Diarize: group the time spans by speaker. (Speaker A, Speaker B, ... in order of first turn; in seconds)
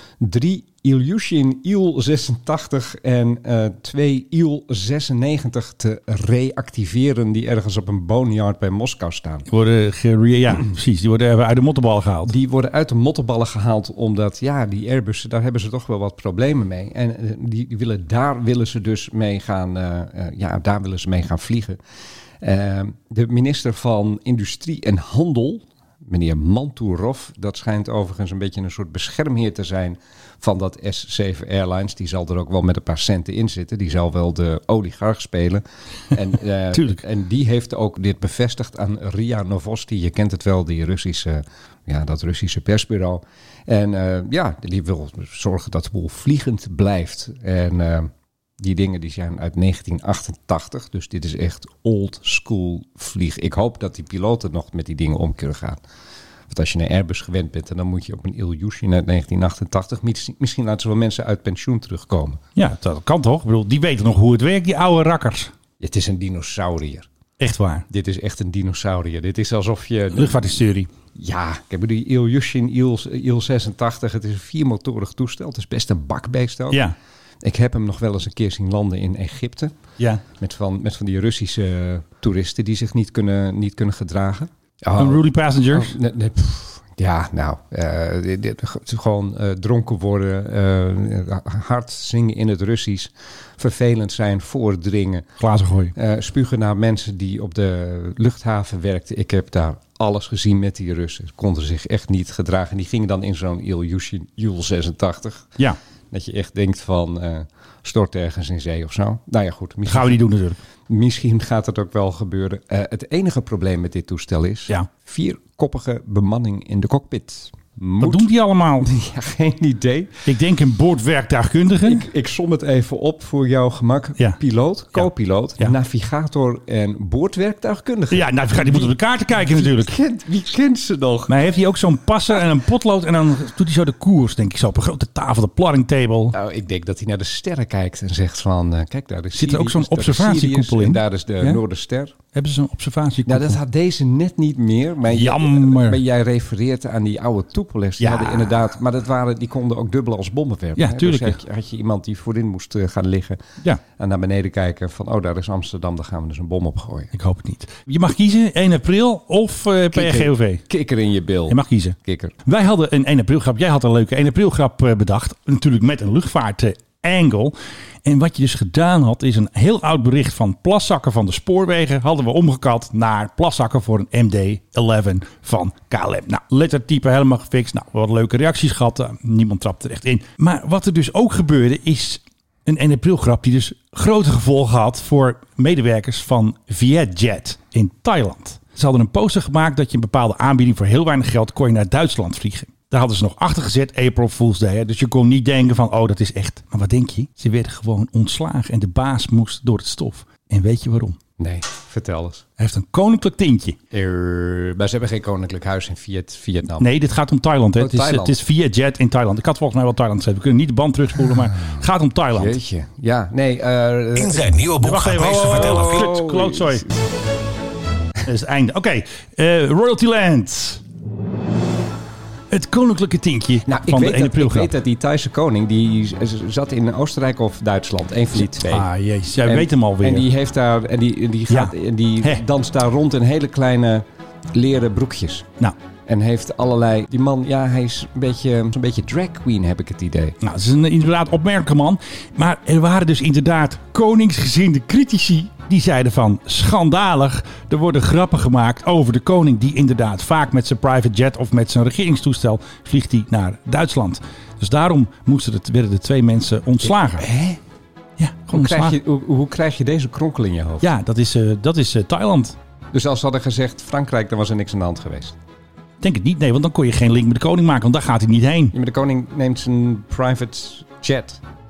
Speaker A: 0.2-9.5, 12.3-21.8, 22.4-55.8, 56.5-62.4, 65.8-67.1, 67.9-70.4, 71.2-76.9, 77.4-79.7, 80.4-95.2, 96.0-105.5, 106.1-110.2, 110.9-118.3, 118.8-120.2, 121.8-131.3, 136.3-142.1, 143.3-153.4, 154.0-157.1, 159.9-162.3, 201.4-202.4, 203.9-206.9, 207.8-208.4, 212.3-214.6, 215.3-217.0, 223.7-228.9, 229.4-235.5, 236.1-240.4, 257.2-257.6, 258.5-260.9, 262.9-265.4, 268.7-271.4
Speaker B: 9.5-12.3, 36.7-37.0, 62.6-65.5, 67.4-67.9, 70.1-70.9, 76.7-77.0, 85.0-86.0, 95.4-95.9, 109.9-110.6, 118.0-118.9, 120.3-122.0, 124.9-125.8, 128.1-129.9, 131.3-136.3, 139.3-141.6, 142.3-143.6, 145.1-146.0, 148.0-148.6, 150.8-151.4, 157.1-160.6, 161.5-201.2, 202.6-203.8, 206.8-212.6, 214.8-216.8, 218.2-220.8, 222.5-224.7, 228.3-230.3, 231.5-232.4, 240.4-257.3, 258.2-259.0, 260.8-262.6, 266.0-268.7
Speaker C: 214.2-216.1